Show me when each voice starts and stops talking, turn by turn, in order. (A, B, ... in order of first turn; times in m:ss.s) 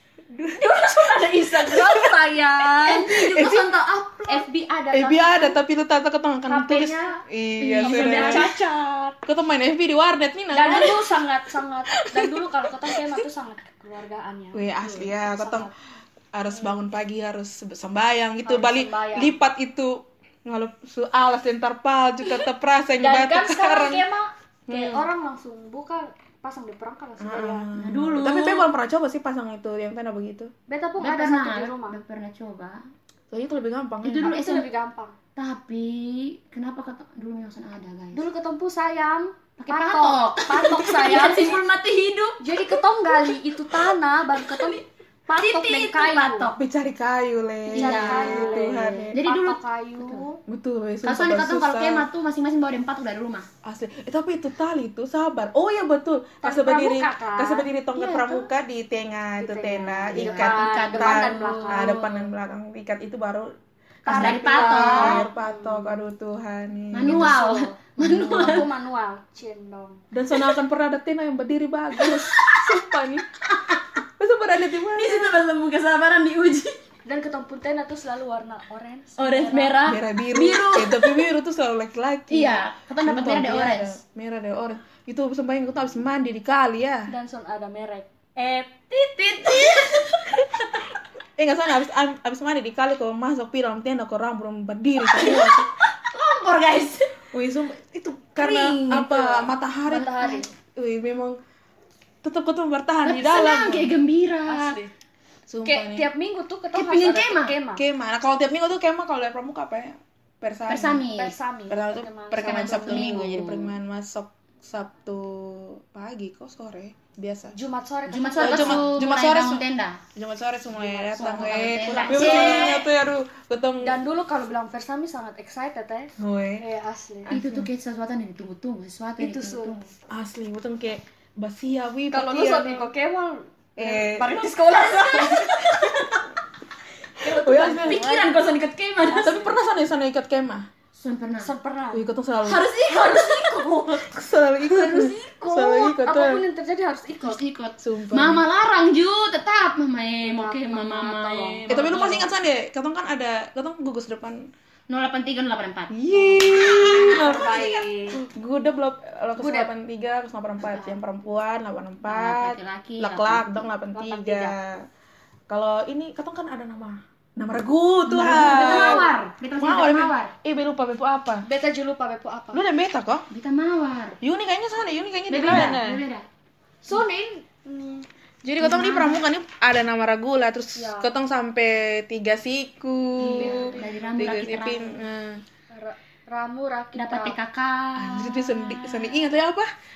0:00.3-0:02.2 A
0:00.6-0:03.6 B
0:02.8-0:04.5 C
0:03.0-0:03.7 A
0:04.2-0:05.6 B
0:04.9-0:08.5 A
0:06.5-0:07.2 B
0:07.6-0:08.6 C
0:07.8-0:09.2 B
0:09.2-0:11.3 A
0:10.5-0:15.7 B
0:11.9-0:13.2 A
0:14.5-0:15.7 A
0:16.3-0:24.0 A
0:18.4-0:19.3 B
0:23.0-0:27.7 B
0:24.7-0:25.1 A
0:27.2-0:30.5 A
0:27.7-0:28.7 C
0:30.7-0:32.0 B
0:31.0-0:32.8 C
0:33.3-0:34.3 A
0:34.0-0:34.6 C
0:34.1-0:35.1 B
0:35.4-0:38.2 C
0:38.1-0:41.6 B
0:39.6-0:43.3 C
0:42.4-0:46.5 B
0:44.4-0:46.6 C
0:46.6-0:49.2 A
0:47.7-0:50.3 B
0:47.7-0:50.3 C
0:50.5-0:52.1 A
0:51.0-0:53.5 C
0:53.6-1:03.5 A
0:56.4-0:57.7 B
0:57.9-0:58.5 C
0:59.4-1:02.3 B
1:00.1-1:02.1 C
1:04.0-1:06.0 B
1:04.0-1:07.4 A
1:04.1-1:05.2 C
1:06.9-1:08.7 C
1:07.0-1:10.0 B
1:08.3-1:08.6 A
1:10.1-1:13.2 A
1:12.0-1:12.8 C
1:13.4-1:13.9 C
1:14.2-1:15.3 A
1:15.0-1:16.8 C
1:17.0-1:19.8 B
1:19.2-1:21.3 C
1:19.8-1:27.1 A
1:22.3-1:24.0 C
1:27.1-1:28.1 B
1:28.4-1:30.9 C
1:31.4-1:35.7 A
1:35.0-1:37.1 C
1:37.3-1:40.2 A
1:38.4-1:39.1 C
1:38.9-1:40.5 B
1:40.0-1:40.5 C
1:40.7-1:41.4 A
1:42.2-1:43.9 A
1:43.0-1:44.8 C
1:44.4-1:44.9 B
1:45.5-1:46.1 A
1:45.6-1:47.8 B
1:46.7-1:47.6 C
1:47.7-1:51.0 A
1:50.7-1:51.3 C
1:51.1-1:53.2 B
1:51.7-1:57.5 A
1:52.3-1:53.7 C
1:57.5-1:58.9 B
1:58.1-2:00.0 C
1:58.4-1:59.6 A
2:00.1-2:04.0 A
2:00.8-2:02.8 B
2:01.1-2:02.8 C
2:03.8-2:07.3 B
2:06.2-2:06.6 A
2:07.3-2:07.7 A
2:07.3-2:09.8 C
2:09.2-2:09.8 B
2:10.1-2:12.9 A
2:12.1-2:15.6 B
2:13.8-2:14.4 A
2:14.7-2:16.2 C
2:17.2-2:18.5 B
2:17.2-2:19.4 C
2:17.4-2:18.0 A
2:19.1-2:19.6 B
2:19.1-2:20.7 A
2:21.0-2:21.5 C
2:21.4-2:22.1 B
2:21.9-2:22.7 A
2:22.4-2:24.1 C
2:24.0-2:26.4 A
2:24.7-2:27.4 B
2:27.2-2:32.3 C
2:27.8-2:28.4 A
2:30.2-2:32.2 B
2:31.7-2:34.4 A
2:34.9-2:37.8 C
2:35.9-2:44.8 A
2:37.1-2:38.2 B
2:39.4-2:39.7 B
2:40.6-2:41.0 C
2:42.0-2:43.7 C
2:43.9-2:44.5 B
2:45.5-2:51.5 A
2:48.1-2:50.3 C
2:48.2-2:49.1 B
2:51.4-2:52.6 B
2:52.5-2:53.3 A
2:53.3-2:54.2 C
2:54.2-2:56.0 A
2:55.3-2:56.2 C
2:56.8-2:58.0 B
2:58.4-3:05.4 A
2:58.6-2:59.2 C
3:00.8-3:01.1 B
3:03.2-3:05.0 C
3:03.3-3:03.8 B
3:05.7-3:07.4 B
3:07.0-3:09.3 C
3:07.9-3:09.7 A